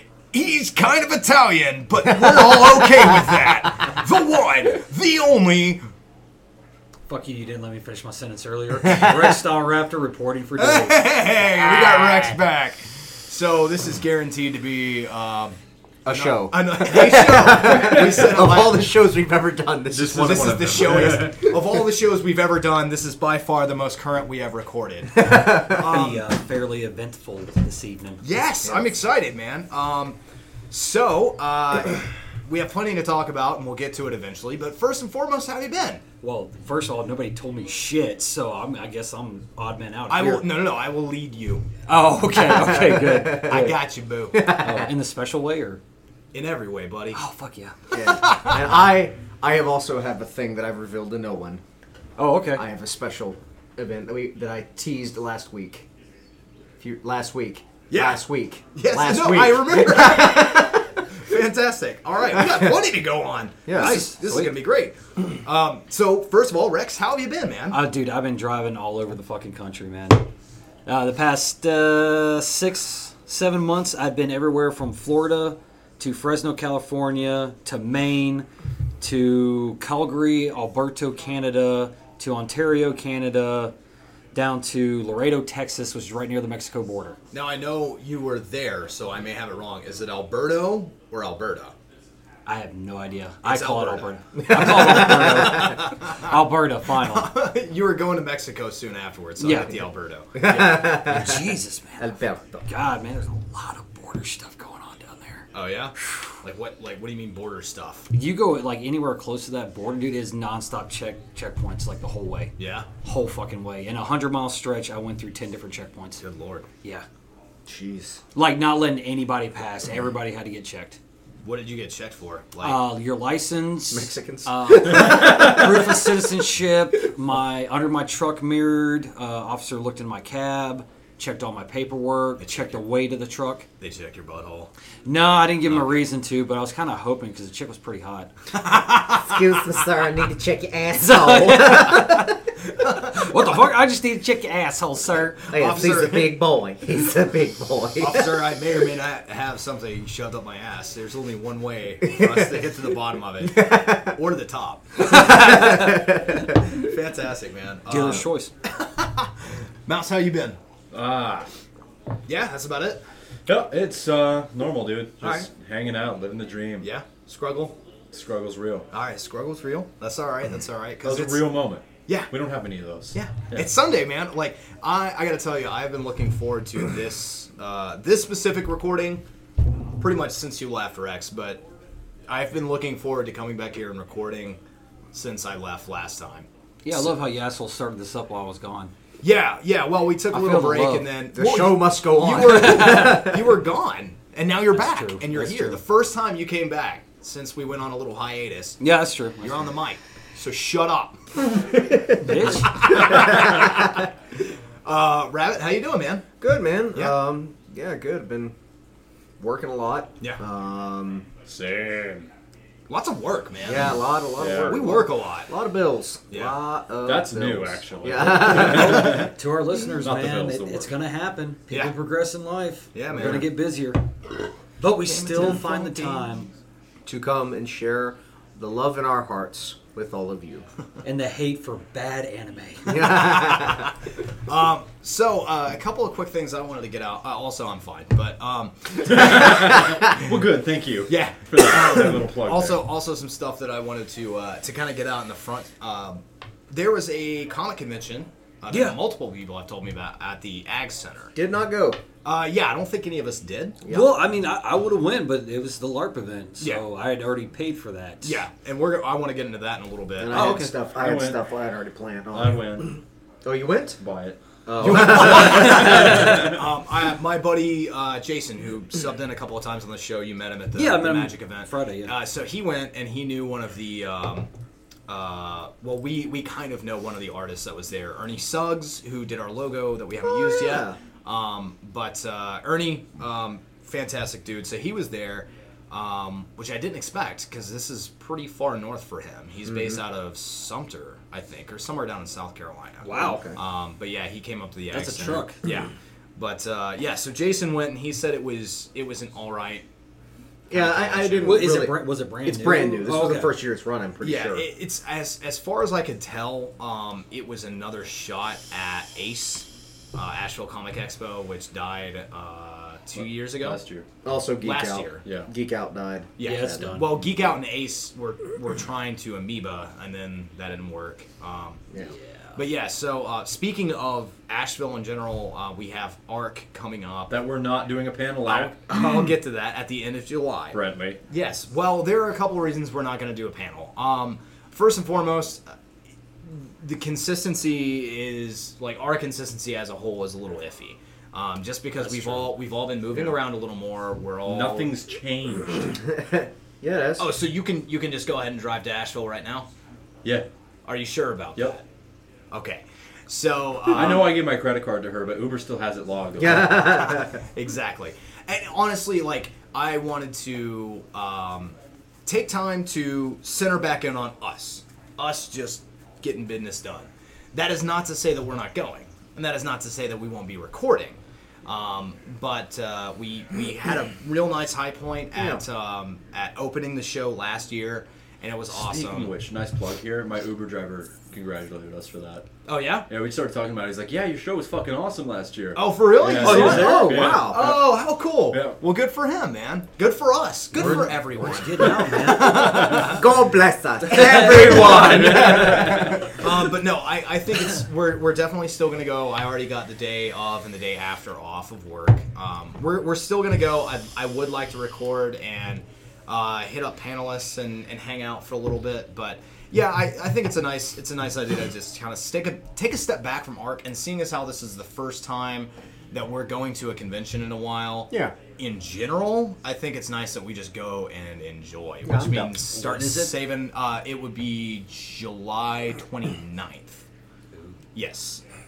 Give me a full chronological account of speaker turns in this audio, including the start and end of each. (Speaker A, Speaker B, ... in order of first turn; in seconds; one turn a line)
Speaker A: 0.3-5.8
Speaker B: 2.1-3.1
Speaker C: 7.1-11.2
Speaker B: 8.8-9.3
Speaker A: 10.6-15.6
Speaker B: 11.4-12.4
Speaker B: 16.1-20.6
Speaker A: 16.1-18.9
Speaker D: 19.9-21.5
Speaker A: 20.1-26.2
Speaker B: 25.2-25.9
Speaker C: 25.8-28.2
Speaker A: 28.2-30.2
Speaker B: 28.6-28.9
Speaker A: 30.7-36.0
Speaker C: 36.2-40.5
Speaker A: 40.1-41.7
Speaker C: 41.9-43.8
Speaker B: 42.3-43.7
Speaker A: 43.2-44.4
Speaker B: 44.3-44.9
Speaker C: 44.5-45.8
Speaker A: 46.3-47.2
Speaker C: 47.1-47.8
Speaker B: 47.9-51.6
Speaker A: 48.0-48.7
Speaker C: 52.2-52.6
Speaker B: 52.5-55.9
Speaker B: 56.8-61.1
Speaker A: 57.9-58.2
Speaker A: 58.8-67.8
Speaker B: 62.4-62.7
Speaker B: 63.6-64.0
Speaker C: 63.7-64.5
Speaker C: 67.7-70.3
Speaker C: 70.9-78.5
Speaker C: 79.0-83.7
Speaker C: 84.3-87.2
Speaker A: 87.3-91.8
Speaker C: 92.5-97.3
Speaker A: 93.4-96.3
Speaker B: 94.4-95.6
Speaker A: 97.0-101.0
Speaker C: 99.4-99.8
Speaker B: 100.3-102.7
Speaker C: 100.5-105.5
Speaker A: 105.5-108.1
Speaker C: 108.1-116.2
Speaker A: 112.6-112.9
Speaker A: 116.2-116.7
Speaker B: 117.7-118.2
Speaker C: 118.3-121.0
Speaker A: 121.4-122.8
Speaker C: 122.6-133.7
Speaker B: 123.9-126.2
Speaker A: 132.4-132.7
Speaker A: 133.8-134.7
Speaker C: 135.1-138.3
Speaker A: 138.6-139.3
Speaker B: 139.1-142.5
Speaker C: 140.9-142.4
Speaker A: 142.7-143.5
Speaker C: 143.1-145.5
Speaker A: 145.5-146.4
Speaker B: 145.5-148.5
Speaker A: 148.0-156.0
Speaker B: 152.0-152.5
Speaker B: 153.4-154.2
Speaker C: 155.0-156.0
Speaker B: 155.1-156.6
Speaker A: 156.6-160.6
Speaker C: 157.9-158.5
Speaker D: 160.9-161.5
Speaker A: 162.3-163.0
Speaker D: 163.5-166.9
Speaker A: 165.2-165.5
Speaker A: 166.8-167.8
Speaker D: 168.1-168.9
Speaker A: 168.9-172.3
Speaker D: 171.0-173.7
Speaker A: 173.1-179.2
Speaker A: 180.0-181.6
Speaker A: 182.3-184.6
Speaker A: 185.1-187.1
Speaker C: 186.8-188.9
Speaker A: 189.2-198.8
Speaker C: 190.3-191.1
Speaker B: 191.3-193.5
Speaker C: 192.4-193.2
Speaker C: 194.7-195.8
Speaker C: 198.8-199.7
Speaker A: 199.4-201.8
Speaker C: 202.2-203.3
Speaker A: 202.3-204.1
Speaker B: 202.9-203.8
Speaker A: 204.8-206.3
Speaker B: 206.4-208.5
Speaker A: 206.9-207.2
Speaker B: 209.4-211.3
Speaker D: 211.4-212.3
Speaker A: 212.9-214.0
Speaker B: 213.6-219.3
Speaker D: 214.4-214.8
Speaker A: 214.6-215.5
Speaker A: 216.3-216.6
Speaker D: 217.0-219.3
Speaker C: 218.3-224.1
Speaker D: 220.0-220.9
Speaker A: 222.9-223.5
Speaker C: 224.8-226.5
Speaker A: 225.1-226.4
Speaker B: 227.1-230.7
Speaker C: 231.0-233.2
Speaker B: 232.9-233.9
Speaker A: 233.1-233.9
Speaker A: 234.5-240.4
Speaker D: 239.0-242.8
Speaker A: 241.1-251.3
Speaker C: 248.7-249.0
Speaker B: 251.3-252.0
Speaker A: 252.2-253.8
Speaker B: 253.8-254.2
Speaker C: 253.9-258.4
Speaker A: 258.2-260.6
Speaker B: 260.2-264.0
Speaker C: 260.3-260.8
Speaker D: 260.9-261.4
Speaker D: 262.3-263.0
Speaker D: 264.0-266.6
Speaker B: 264.7-266.5
Speaker A: 264.8-274.5
Speaker C: 270.8-272.1
Speaker A: 275.1-299.9
Speaker B: 280.5-281.0
Speaker B: 289.7-290.0
Speaker C: 293.0-293.4
Speaker B: 293.1-293.6
Speaker D: 294.9-295.6
Speaker C: 294.9-295.6
Speaker B: 300.7-304.7
Speaker A: 300.7-301.8
Speaker C: 301.4-303.5
Speaker A: 304.2-313.8
Speaker D: 313.2-314.1
Speaker B: 314.2-316.9
Speaker A: 314.6-315.2
Speaker D: 315.2-315.5
Speaker A: 316.4-321.8
Speaker C: 316.4-317.3
Speaker A: 322.6-327.3
Speaker D: 327.3-328.8
Speaker A: 328.4-335.6
Speaker B: 329.0-329.3
Speaker D: 330.7-331.2
Speaker A: 336.4-344.9
Speaker C: 342.1-342.5
Speaker D: 344.4-345.9
Speaker B: 345.9-347.3
Speaker A: 347.2-349.7
Speaker A: 350.9-351.8
Speaker A: 352.5-354.4
Speaker D: 353.9-357.1
Speaker B: 356.4-357.4
Speaker A: 357.1-361.8
Speaker A: 362.3-379.3
Speaker D: 378.7-382.5
Speaker A: 382.7-383.1
Speaker D: 383.1-387.8
Speaker A: 385.8-393.3
Speaker B: 386.3-387.7
Speaker C: 386.4-387.2
Speaker D: 388.5-388.8
Speaker C: 390.7-393.1
Speaker B: 392.4-396.5
Speaker C: 394.1-395.5
Speaker D: 394.3-396.3
Speaker A: 394.5-427.1
Speaker B: 422.0-422.6
Speaker C: 422.5-423.4
Speaker C: 427.5-427.8
Speaker A: 427.9-428.4